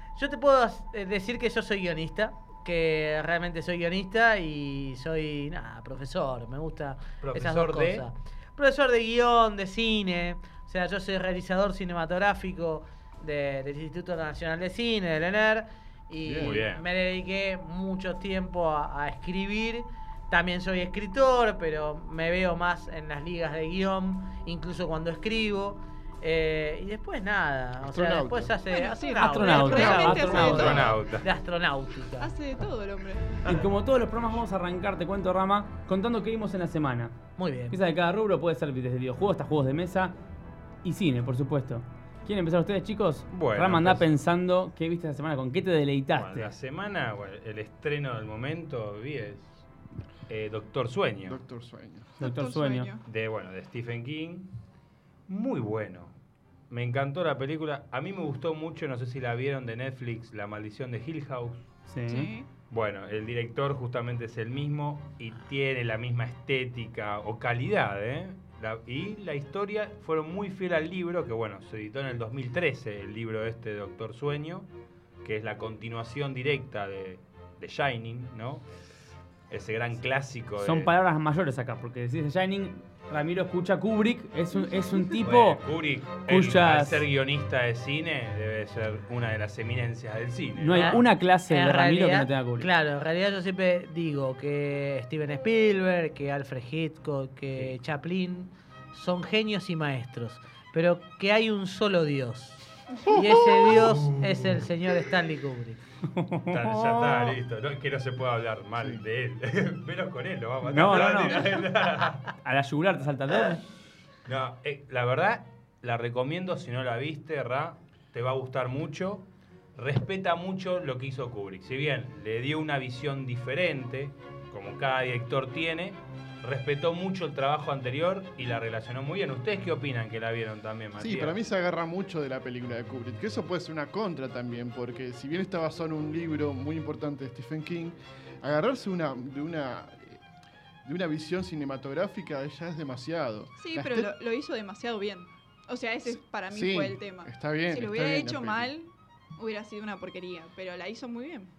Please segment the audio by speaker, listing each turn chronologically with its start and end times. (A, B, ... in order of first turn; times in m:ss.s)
0:00.2-0:32.3 A
0:07.2-0:08.0 B
0:16.2-0:16.6 C
0:16.4-0:16.8 B
0:27.8-0:28.5 C
0:28.7-0:30.9 D
0:29.2-0:30.7 E
0:30.2-0:31.3 B
0:32.2-0:33.5 D
0:33.4-0:37.1 E
0:37.4-0:37.8 A
0:37.7-0:40.1 E
0:40.8-0:46.5 E
0:43.3-0:44.1 B
0:46.1-0:49.5 B
0:50.3-0:51.4 B
0:51.2-0:52.1 C
0:52.2-0:53.0 D
0:52.2-0:52.9 E
0:53.0-0:54.5 B
0:55.3-0:56.1 B
0:56.7-1:01.7 B
1:01.9-1:02.3 E
1:02.1-1:02.5 D
1:02.7-1:14.7 B
1:15.2-1:18.6 B
1:19.5-1:20.9 B
1:20.6-1:25.6 E
1:25.2-1:31.0 B
1:26.2-1:27.0 E
1:30.6-1:32.7 E
1:30.7-1:45.8 A
1:43.1-1:43.7 C
1:43.6-1:44.7 B
1:46.1-1:47.3 E
1:46.5-1:52.3 B
1:50.6-1:51.4 E
1:52.4-1:53.6 E
1:54.2-1:59.2 B
1:59.8-2:11.4 B
2:11.0-2:20.2 C
2:20.8-2:24.1 C
2:23.6-2:31.5 D
2:26.0-2:28.7 C